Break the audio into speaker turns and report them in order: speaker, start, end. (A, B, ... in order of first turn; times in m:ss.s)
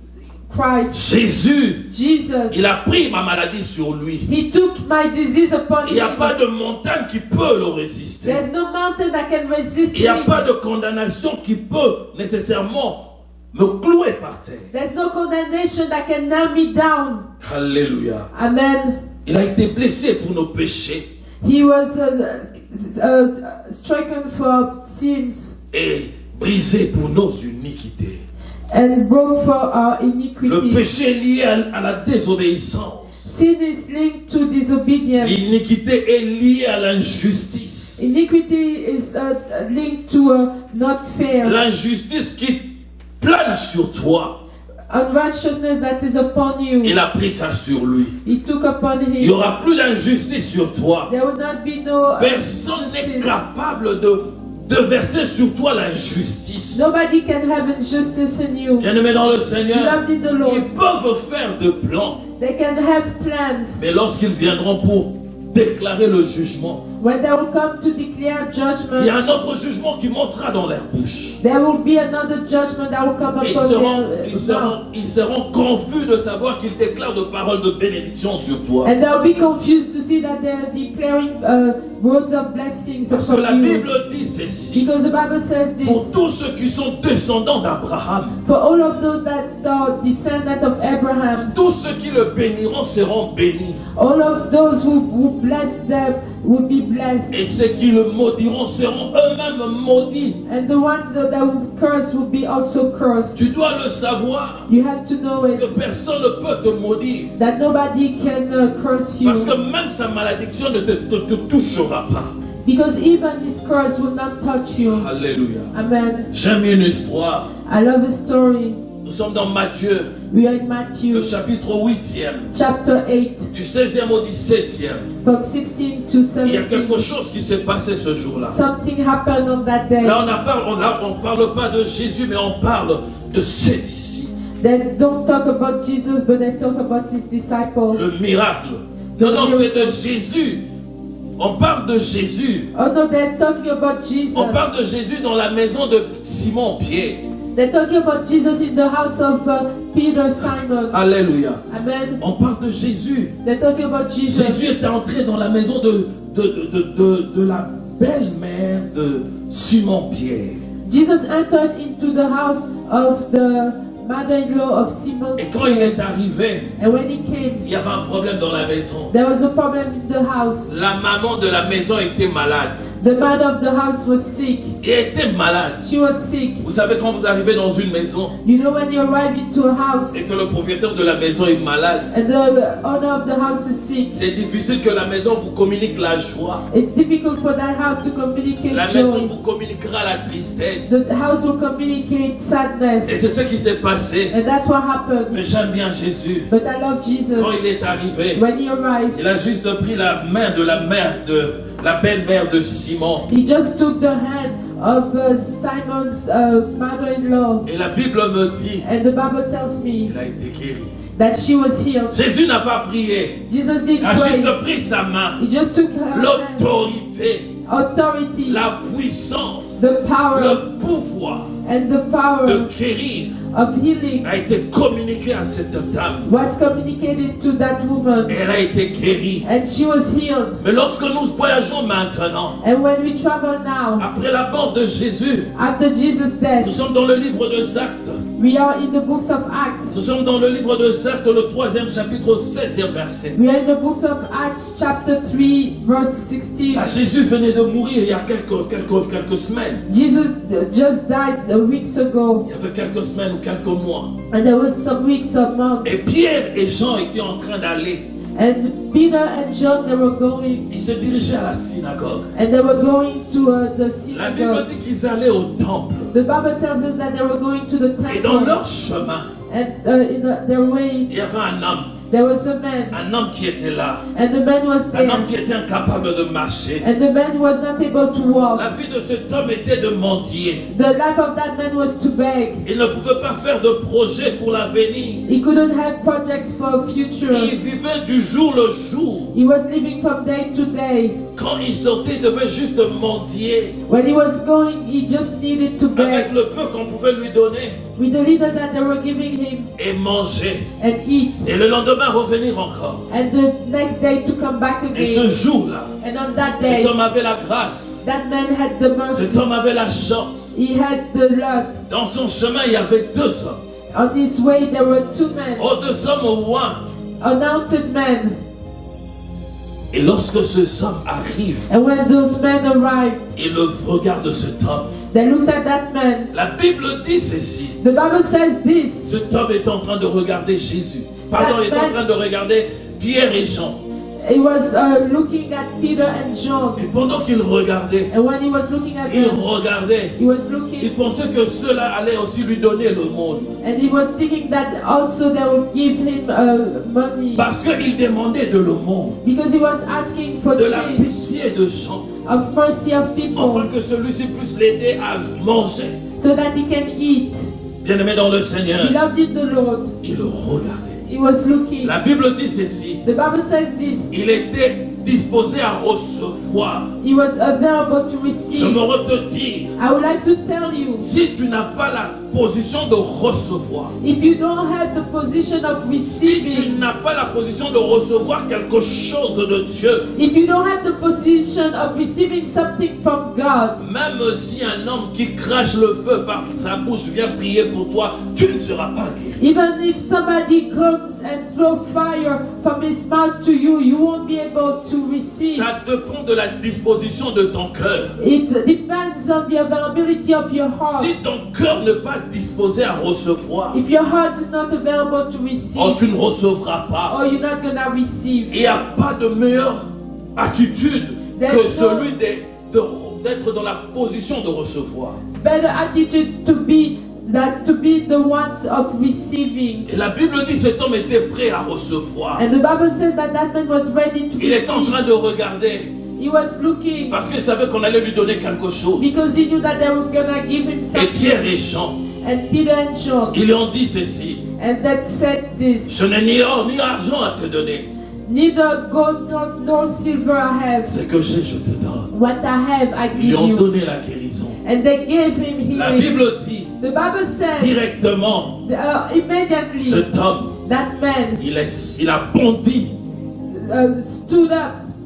0:00.5-0:01.0 A
0:00.9-0:01.8 B
0:01.9-0:02.6 A
0:02.5-0:04.3 B
0:04.2-0:06.3 A
0:05.8-0:08.4 B
0:08.2-0:10.4 A
0:09.9-0:14.7 B
0:14.7-0:17.2 A
0:17.4-0:18.3 B
0:18.3-0:19.0 A
0:19.2-0:21.0 B
0:21.4-0:25.5 A
0:25.7-0:28.2 B
0:28.7-0:30.8 A
0:30.4-0:33.3 B
0:33.2-0:35.5 A
0:35.2-0:38.1 B
0:38.0-0:41.6 A
0:41.4-0:42.7 B
0:43.2-0:44.4 B
0:44.9-0:47.0 A
0:46.8-0:48.2 B
0:48.2-0:49.4 A
0:49.2-0:51.1 B
0:51.1-0:53.4 A
0:52.2-0:56.9 B
0:56.7-0:58.9 A
0:58.8-1:02.2 B
0:59.7-1:00.7 A
1:02.4-1:03.8 A
1:03.8-1:06.8 B
1:07.0-1:09.2 A
1:08.9-1:11.4 B
1:11.4-1:14.8 A
1:13.4-1:18.9 B
1:18.8-1:23.8 A
1:23.1-1:24.9 B
1:24.7-1:26.1 A
1:25.8-1:28.4 B
1:28.4-1:31.5 A
1:31.3-1:33.8 B
1:33.9-1:37.3 A
1:37.3-1:40.4 B
1:40.4-1:43.4 A
1:43.3-1:44.7 B
1:44.7-1:45.8 A
1:45.5-1:47.3 B
1:47.4-1:49.5 A
1:49.2-1:52.3 B
1:52.6-1:55.1 A
1:54.9-1:55.7 B
1:55.7-1:56.3 A
1:56.3-1:57.5 B
1:57.6-1:58.8 A
1:59.0-2:00.1 B
2:00.3-2:01.3 A
2:01.1-2:02.5 B
2:02.5-2:03.5 A
2:03.5-2:05.1 B
2:05.2-2:07.0 A
2:06.4-2:08.6 B
2:08.4-2:10.2 A
2:10.0-2:14.3 B
2:14.6-2:18.1 A
2:17.9-2:20.6 B
2:19.2-2:20.0 A
2:21.4-2:22.7 B
2:22.7-2:24.6 A
2:24.3-2:27.2 B
2:27.5-2:31.0 A
2:30.9-2:31.6 B
2:31.7-2:32.2 A
2:32.2-2:33.3 B
2:33.4-2:34.6 A
2:34.3-2:40.6 B
2:40.8-2:46.0 A
2:45.4-2:46.7 B
2:46.8-2:47.6 A
2:47.6-2:49.1 B
2:49.1-2:50.7 A
2:50.7-2:52.8 B
2:53.0-2:54.7 A
2:54.8-2:55.8 B
2:55.8-2:56.6 A
2:56.6-2:58.3 B
2:58.4-3:00.2 A
3:00.1-3:02.1 B
3:02.1-3:04.1 A
3:04.1-3:06.6 B
3:06.7-3:09.3 A
3:08.7-3:11.0 B
3:10.8-3:13.2 A
3:13.0-3:14.3 B
3:14.3-3:15.3 A
3:15.3-3:16.5 B
3:16.5-3:17.6 A
3:17.4-3:18.4 B
3:18.3-3:19.2 A
3:19.1-3:23.3 B
3:23.3-3:27.6 A
3:27.6-3:28.8 B
3:28.8-3:30.1 A
3:30.1-3:31.0 B
3:31.2-3:32.1 A
3:32.1-3:33.5 B
3:33.5-3:34.6 A
3:34.0-3:35.4 B
3:35.4-3:36.6 A
3:36.1-3:37.5 B
3:37.6-3:38.6 A
3:38.4-3:39.8 B
3:39.8-3:40.6 A
3:40.3-3:41.5 B
3:41.6-3:42.7 A
3:42.4-3:43.4 B
3:43.5-3:44.2 A
3:44.2-3:46.3 B
3:46.3-3:48.4 A
3:48.3-3:49.5 B
3:49.4-3:50.6 A
3:50.6-3:52.6 B
3:52.6-3:54.1 A
3:54.0-3:55.5 B
3:55.5-3:56.7 A
3:56.6-3:58.2 B
3:58.4-4:00.0 A
3:59.9-4:03.4 B
4:03.3-4:06.9 A
4:06.7-4:09.8 B
4:09.9-4:12.4 A
4:12.4-4:14.1 B
4:14.3-4:16.0 A
4:15.8-4:18.0 B
4:18.4-4:20.7 A
4:20.7-4:22.3 B
4:22.3-4:24.6 A
4:24.1-4:26.1 B
4:26.1-4:28.6 A
4:28.1-4:29.3 B
4:29.5-4:31.1 A
4:31.1-4:32.0 B
4:32.1-4:33.0 A
4:32.9-4:34.0 B
4:34.1-4:35.3 A
4:34.9-4:36.8 B
4:36.8-4:38.7 A
4:38.5-4:40.6 B
4:40.7-4:42.6 A
4:42.6-4:45.2 B
4:45.3-4:47.5 A
4:47.3-4:49.3 B
4:49.3-4:51.2 A
4:51.3-4:53.8 B
4:53.9-4:56.3 A
4:55.9-4:57.8 B
4:58.0-4:59.7 A
4:59.8-5:00.7 B
5:00.8-5:01.4 A
5:01.4-5:03.1 B
5:03.1-5:05.3 A
5:04.9-5:05.9 B
5:06.0-5:06.9 A
5:06.6-5:08.0 B
5:08.0-5:09.4 A
5:09.1-5:10.5 B
5:10.5-5:11.8 A
5:11.9-5:13.6 B
5:13.9-5:15.7 A
5:15.6-5:16.8 B
5:17.2-5:18.4 A
5:19.9-5:21.7 B
5:21.7-5:23.2 A
5:23.4-5:24.9 B
5:25.1-5:26.3 A
5:26.3-5:27.8 B
5:27.8-5:29.1 A
5:29.0-5:33.8 B
5:31.3-5:32.0 A
5:34.2-5:36.8 A
5:36.8-5:38.1 B
5:38.1-5:39.4 A
5:39.1-5:40.2 B
5:40.2-5:40.9 A
5:40.8-5:43.5 B
5:43.6-5:47.5 A
5:47.3-5:49.2 B
5:49.2-5:51.1 A
5:50.5-5:52.1 B
5:52.2-5:53.7 A
5:53.3-5:56.0 B
5:56.2-5:57.5 A
5:57.8-5:59.0 B
5:58.8-5:59.9 A
6:00.0-6:01.0 B
6:01.1-6:01.9 A
6:01.8-6:03.0 B
6:03.0-6:04.1 A
6:04.1-6:06.9 B
6:07.0-6:08.8 A
6:08.5-6:09.7 B
6:09.8-6:11.1 A
6:11.0-6:13.9 B
6:14.0-6:16.8 A
6:16.2-6:20.1 B
6:20.1-6:23.8 A
6:23.8-6:29.4 B
6:29.4-6:35.7 A
6:35.4-6:38.2 B
6:38.2-6:41.1 A
6:40.8-6:43.8 B
6:43.7-6:46.0 A
6:45.8-6:47.2 B
6:47.1-6:48.7 A
6:48.5-6:55.2 B
6:51.4-6:52.1 A
6:55.4-6:59.9 A
6:59.9-7:02.4 B
7:02.4-7:05.0 A
7:04.4-7:05.9 B
7:06.2-7:07.2 A
7:07.1-7:09.2 B
7:09.0-7:11.5 A
7:10.9-7:12.0 B
7:12.2-7:13.3 A
7:13.3-7:14.4 B
7:14.6-7:15.9 A
7:15.9-7:17.9 B
7:18.3-7:20.9 A
7:20.9-7:22.1 B
7:22.1-7:23.6 A
7:23.1-7:24.6 B
7:24.6-7:26.1 A
7:25.7-7:26.7 B
7:26.8-7:27.8 A
7:27.6-7:28.6 B
7:28.6-7:30.1 A
7:29.8-7:30.5 B
7:30.6-7:31.4 A
7:31.4-7:32.9 B
7:33.5-7:34.8 A